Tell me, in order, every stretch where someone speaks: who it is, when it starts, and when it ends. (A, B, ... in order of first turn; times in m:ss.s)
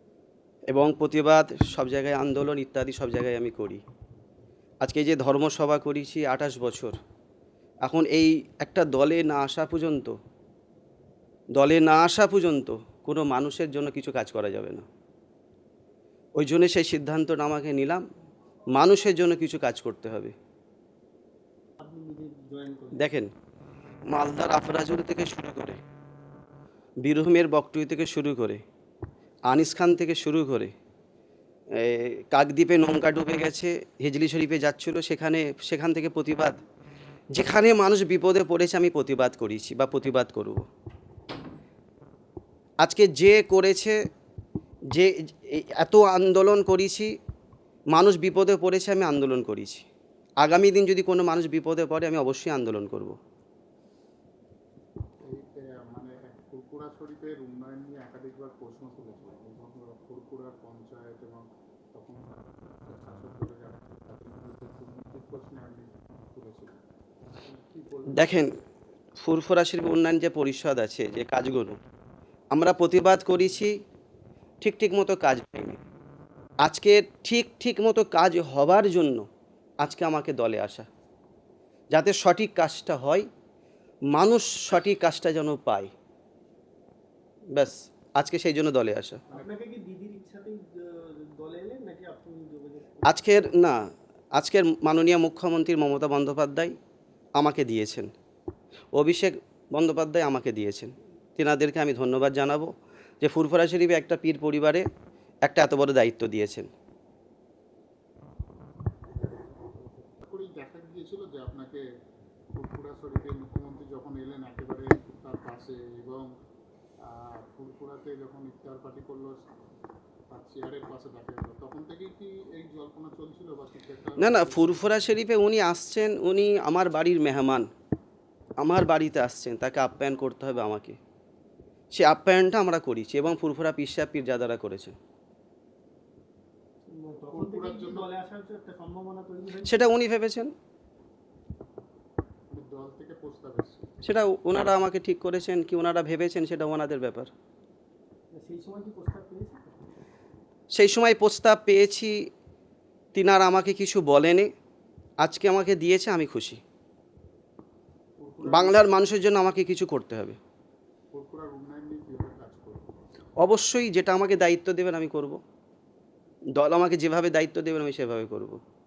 0:00.7-0:03.8 A
0:04.8-0:07.0 A
0:07.8-0:10.2 A
0:11.6-0:14.8 A
0:16.4-0:18.0 A
0:18.7-0:20.4 A
0:21.8-0:23.1 B
0:23.0-0:23.3 A
0:24.1-0:25.8 A
0:27.0-0:28.6 A
0:29.5-0:30.7 A
0:31.8-0:36.6 A
0:37.3-0:40.7 A
0:42.8-0:44.0 A
0:44.9-0:47.1 A
0:47.9-0:49.8 A
0:50.4-0:53.2 A
0:55.2-1:06.8 C
1:07.4-1:08.4 C
1:08.2-1:08.5 A
1:09.2-1:11.8 A
1:12.5-1:13.8 A
1:14.6-1:15.8 A
1:16.6-1:19.3 A
1:19.8-1:20.9 A
1:21.9-1:23.3 A
1:24.1-1:25.9 A
1:27.5-1:29.2 A
1:29.3-1:33.4 B
1:33.1-1:36.8 A
1:37.4-1:38.1 A
1:38.9-1:44.9 A
1:45.4-1:46.7 A
1:49.2-1:51.8 C
1:52.6-1:56.3 C
1:57.1-1:59.4 C
2:00.3-2:04.8 C
2:04.2-2:07.7 A
2:08.6-2:11.0 A
2:11.9-2:15.0 A
2:16.9-2:19.8 B
2:17.3-2:18.1 C
2:19.6-2:20.5 A
2:22.5-2:23.9 C
2:24.0-2:27.3 A
2:28.3-2:29.8 B
2:30.7-2:32.3 A
2:33.2-2:34.5 A
2:35.2-2:36.6 A
2:38.2-2:38.9 C
2:38.4-2:40.4 A
2:41.1-2:42.9 C
2:43.4-2:45.4 A
2:46.6-2:48.6 A